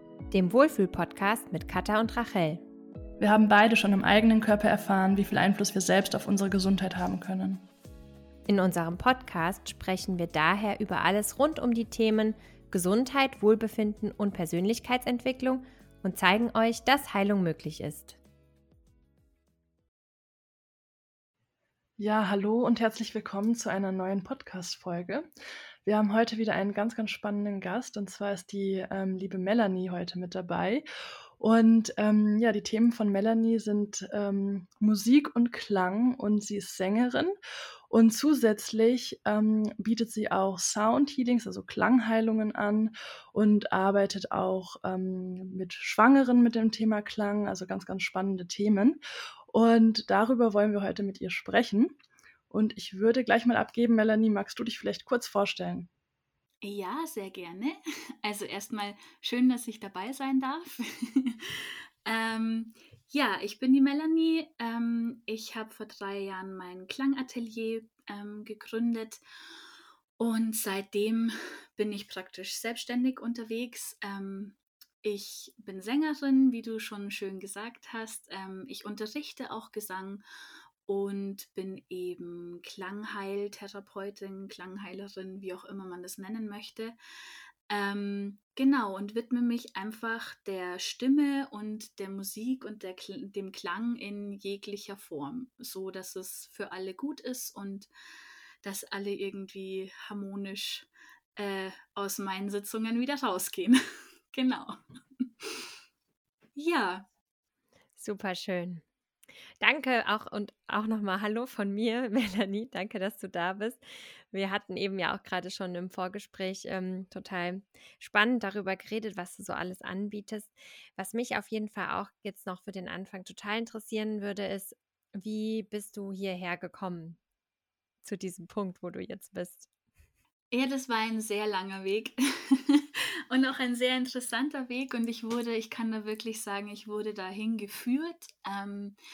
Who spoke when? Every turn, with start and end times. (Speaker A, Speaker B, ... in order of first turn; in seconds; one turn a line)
Speaker A: 0.3-2.6
Speaker B: 3.2-7.6
Speaker A: 8.5-18.2
Speaker B: 22.0-25.3
Speaker B: 25.8-30.8
Speaker B: 31.4-37.3
Speaker B: 37.9-52.0
Speaker B: 52.5-55.9
Speaker C: 56.6-69.2
Speaker C: 70.2-80.2
Speaker C: 80.9-87.0
Speaker C: 87.7-97.9
Speaker C: 98.6-103.8
Speaker C: 104.3-105.7
Speaker C: 106.6-107.1
Speaker A: 108.0-108.8
Speaker A: 109.6-127.2
Speaker A: 128.0-129.7
Speaker C: 130.5-139.0